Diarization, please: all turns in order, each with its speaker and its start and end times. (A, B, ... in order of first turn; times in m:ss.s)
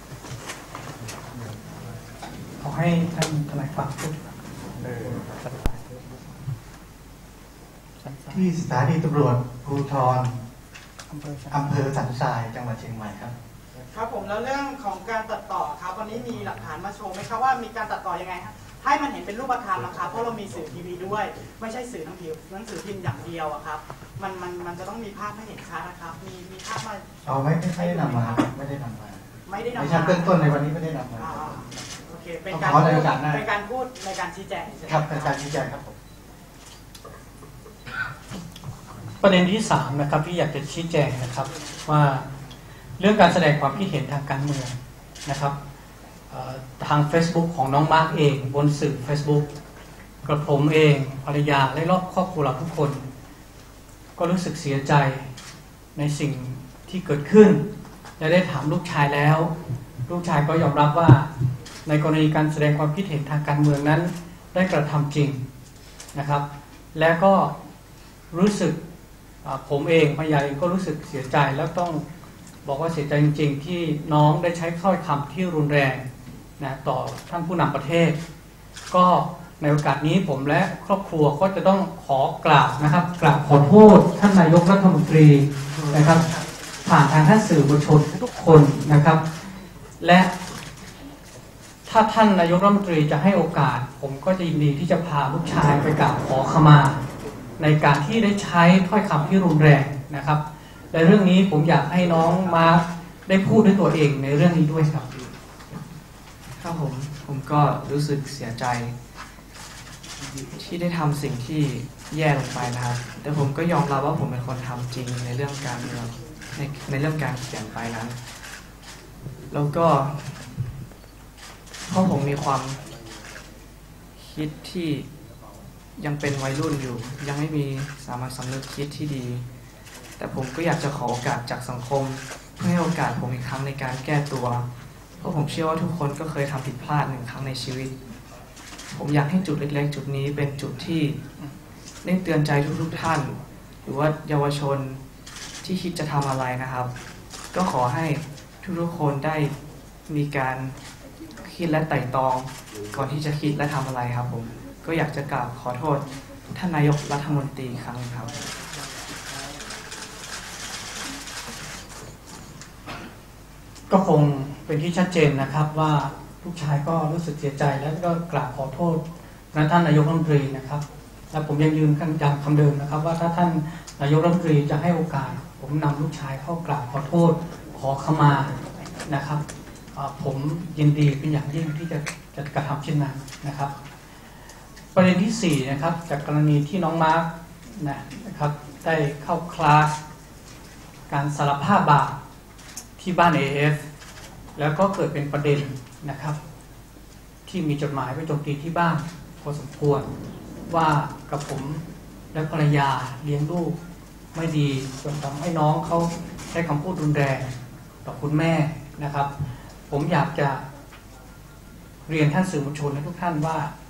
0:02.6-0:04.2 A
0:04.8-0:06.2 A
0:08.0-0:08.5 A
0:08.3-0:10.4 B
0:11.1-0:11.8 A
0:11.5-0:13.4 B
0:13.9-0:28.4 C
0:27.2-0:29.2 B
0:29.4-0:30.4 C
0:29.8-0:31.5 B
0:31.2-0:35.4 C
0:32.5-0:33.5 B
0:34.8-0:36.0 B
0:39.2-0:42.3 A
0:43.0-0:45.6 A
0:46.3-0:49.4 A
0:50.2-0:53.0 A
0:54.2-0:55.3 A
0:56.0-0:59.5 A
1:00.1-1:01.3 A
1:01.9-1:05.4 A
1:06.1-1:07.5 A
1:08.3-1:08.8 A
1:09.4-1:12.0 A
1:12.6-1:16.1 A
1:16.6-1:18.2 A
1:18.9-1:26.2 A
1:26.8-1:29.2 A
1:30.0-1:30.3 A
1:31.9-1:37.0 A
1:37.6-1:45.1 A
1:46.6-1:49.0 D
1:50.5-1:58.2 D
1:59.5-2:00.4 D
2:01.9-2:02.8 D
2:04.2-2:05.1 D
2:06.0-2:09.4 D
2:10.2-2:14.7 D
2:15.2-2:18.0 D
2:18.9-2:21.2 D
2:22.0-2:25.0 D
2:25.6-2:26.9 D
2:27.5-2:29.6 D
2:30.1-2:30.8 D
2:31.4-2:38.4 D
2:43.9-2:59.4 A
3:00.0-3:03.7 A
3:04.9-3:10.0 A
3:11.1-3:12.2 A
3:13.0-3:13.8 A
3:14.6-3:16.4 A
3:17.5-3:20.1 A
3:20.7-3:23.8 A
3:24.3-3:27.5 A
3:28.0-3:29.3 A
3:29.9-3:30.6 A
3:32.1-3:33.7 A